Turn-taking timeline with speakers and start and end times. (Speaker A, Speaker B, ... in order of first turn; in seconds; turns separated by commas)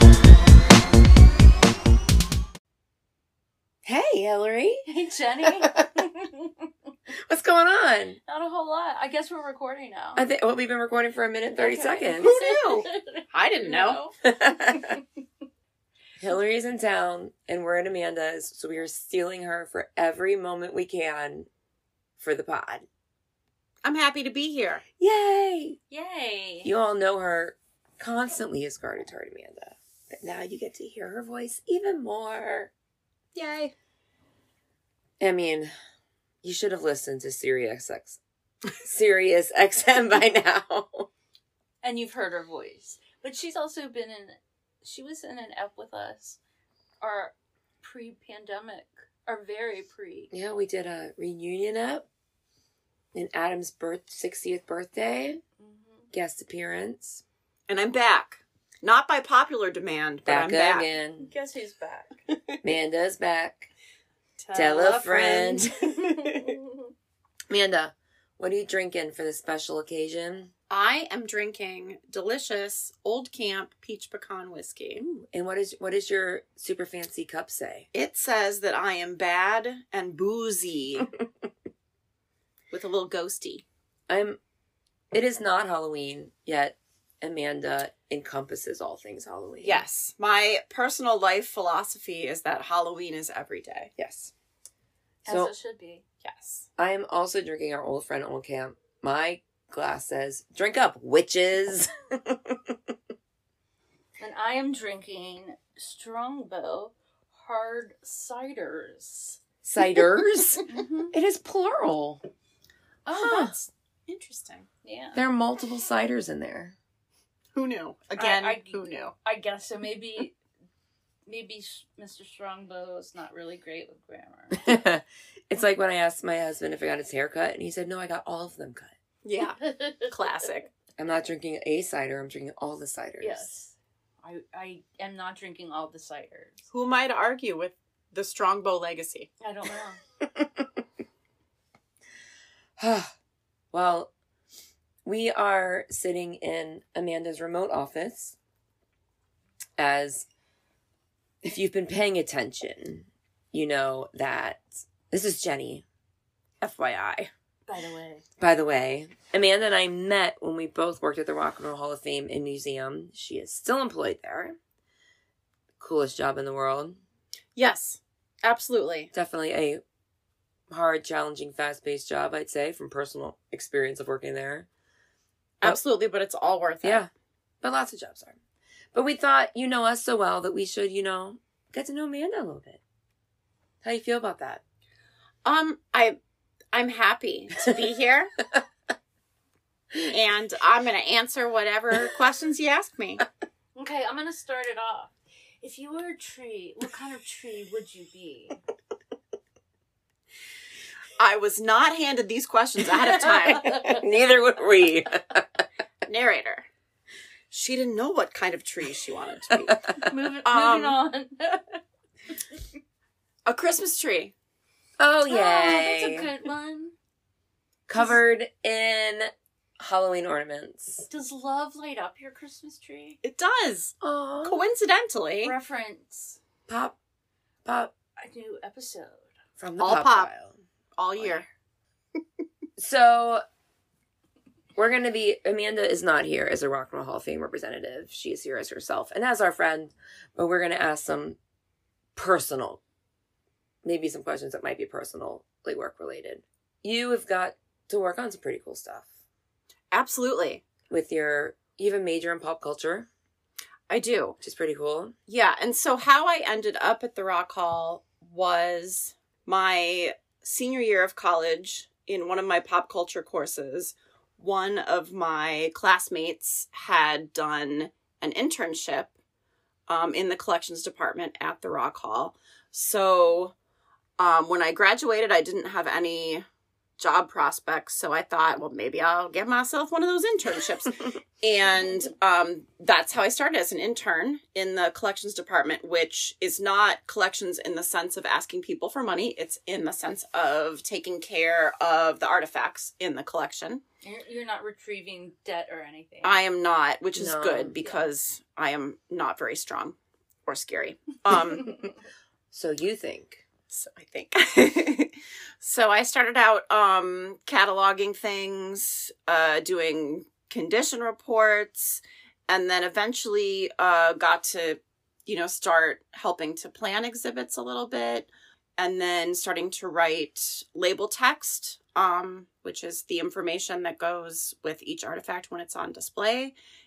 Speaker A: 3.8-4.8, Speaker B: 4.8-6.7, Speaker A: 5.6-6.0, Speaker A: 7.1-8.2, Speaker B: 8.3-10.2, Speaker A: 10.2-12.6, Speaker B: 11.6-14.1, Speaker C: 12.2-14.1, Speaker A: 14.2-15.0, Speaker B: 14.7-14.9, Speaker A: 16.2-21.5, Speaker A: 22.2-22.9, Speaker C: 23.8-24.8, Speaker A: 25.0-25.8, Speaker B: 25.9-26.7, Speaker A: 26.6-32.7, Speaker C: 33.3-33.7, Speaker A: 35.2-35.7, Speaker A: 36.4-38.2, Speaker A: 38.8-41.1, Speaker B: 41.8-46.4, Speaker B: 47.0-50.3, Speaker A: 50.3-52.0, Speaker A: 53.1-55.4, Speaker B: 55.6-56.1, Speaker A: 56.1-57.2, Speaker C: 57.7-60.9, Speaker A: 60.2-61.3, Speaker B: 61.2-62.1, Speaker A: 62.6-63.7, Speaker C: 64.4-66.5, Speaker A: 64.5-66.1, Speaker A: 67.5-70.5, Speaker C: 70.7-75.1, Speaker A: 75.1-77.9, Speaker C: 77.9-81.1, Speaker C: 82.7-83.6, Speaker A: 84.1-84.4, Speaker A: 85.1-89.8, Speaker C: 89.6-93.9, Speaker A: 94.0-94.3, Speaker B: 95.2-96.0, Speaker A: 95.3-95.5, Speaker C: 96.2-96.7, Speaker A: 96.8-102.9, Speaker B: 104.2-109.4, Speaker A: 109.6-112.3, Speaker B: 110.7-111.1, Speaker A: 113.0-113.5, Speaker C: 113.1-114.7, Speaker B: 114.8-115.2, Speaker A: 115.1-116.8, Speaker C: 117.5-119.1, Speaker B: 118.2-120.3, Speaker B: 121.2-124.7, Speaker A: 124.5-128.9, Speaker C: 129.2-130.7, Speaker B: 129.6-130.3, Speaker A: 131.0-133.6, Speaker B: 133.2-136.7, Speaker C: 136.7-139.3, Speaker B: 139.4-140.0, Speaker A: 140.2-140.8, Speaker A: 142.8-143.1, Speaker A: 143.7-144.1, Speaker A: 145.0-148.3, Speaker A: 149.8-150.3, Speaker A: 151.4-155.8, Speaker C: 156.6-157.3, Speaker B: 157.7-158.2, Speaker A: 158.4-164.6, Speaker A: 165.8-167.0, Speaker C: 167.6-169.1, Speaker A: 169.1-169.8, Speaker A: 170.7-174.7, Speaker C: 175.6-177.1, Speaker A: 176.8-177.1, Speaker A: 177.6-178.4, Speaker A: 178.9-182.8, Speaker A: 183.8-184.6, Speaker C: 185.4-186.2, Speaker C: 186.7-188.3, Speaker C: 190.0-193.2, Speaker B: 193.7-198.6, Speaker C: 201.2-203.8, Speaker B: 203.3-204.0, Speaker A: 203.6-205.6, Speaker C: 206.0-206.7, Speaker C: 207.5-209.8, Speaker A: 209.5-210.1, Speaker B: 209.9-211.8, Speaker C: 210.4-211.0, Speaker C: 213.4-214.3, Speaker A: 215.0-216.3, Speaker B: 215.2-216.9, Speaker A: 217.9-221.1, Speaker B: 221.1-223.2, Speaker C: 223.2-225.5, Speaker A: 224.0-224.6, Speaker B: 225.4-226.4, Speaker A: 226.7-226.9, Speaker A: 227.6-227.9, Speaker B: 228.2-229.3, Speaker A: 229.6-230.6, Speaker C: 229.8-230.3, Speaker C: 230.9-231.4, Speaker A: 232.8-233.4, Speaker A: 234.8-241.4, Speaker A: 242.2-242.8, Speaker A: 243.8-249.1, Speaker C: 249.9-250.6, Speaker A: 250.9-253.1, Speaker C: 253.9-254.4, Speaker A: 254.4-255.1, Speaker C: 255.3-269.1, Speaker C: 269.9-273.5, Speaker C: 274.2-276.4, Speaker C: 277.0-293.8, Speaker B: 294.0-296.4, Speaker C: 296.2-301.8, Speaker A: 297.1-297.8, Speaker A: 302.5-303.4, Speaker C: 303.7-326.5